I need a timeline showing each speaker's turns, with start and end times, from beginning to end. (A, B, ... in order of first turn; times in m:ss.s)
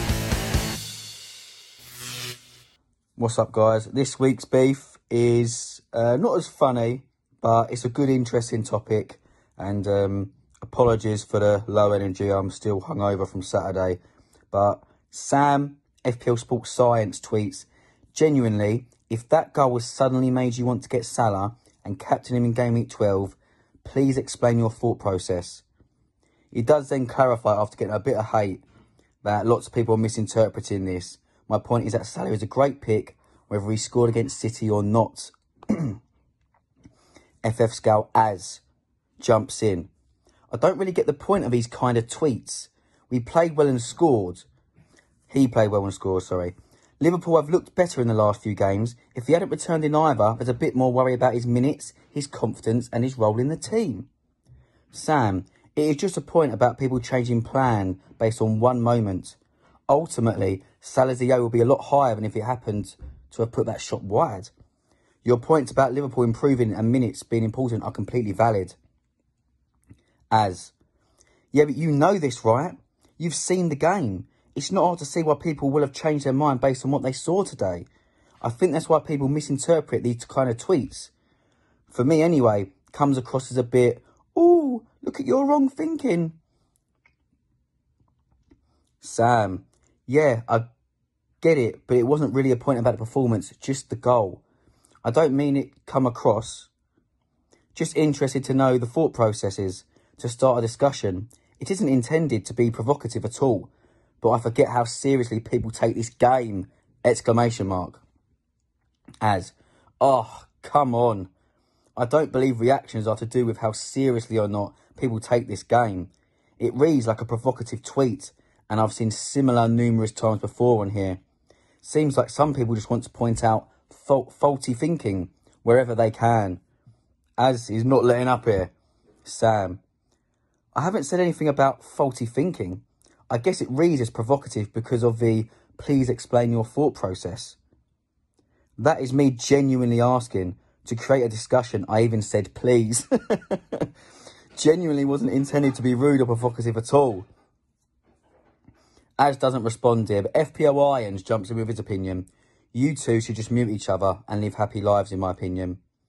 0:03.2-0:14.0 A
0:14.5-0:25.6 A
0:26.5-0:28.6 A
0:29.2-0:36.0 A
0:37.4-0:38.6 A
0:39.2-0:39.9 A
0:40.5-0:44.4 A
0:45.3-0:54.1 A
0:54.9-0:59.4 A
0:59.9-1:04.5 A
1:05.2-1:08.8 A
1:10.3-1:10.7 A
1:11.5-1:17.8 A
1:18.4-1:21.1 A
1:21.9-1:26.4 A
1:29.0-1:30.7 A
1:31.4-1:34.4 A
1:35.0-1:36.7 A
1:37.7-1:48.0 A
1:49.2-1:51.3 A
1:52.0-2:01.2 A
2:01.8-2:06.6 A
2:07.4-2:08.7 A
2:09.2-2:09.8 A
2:10.7-2:17.6 A
2:18.8-2:23.9 A
2:24.6-2:27.3 A
2:29.2-2:35.8 A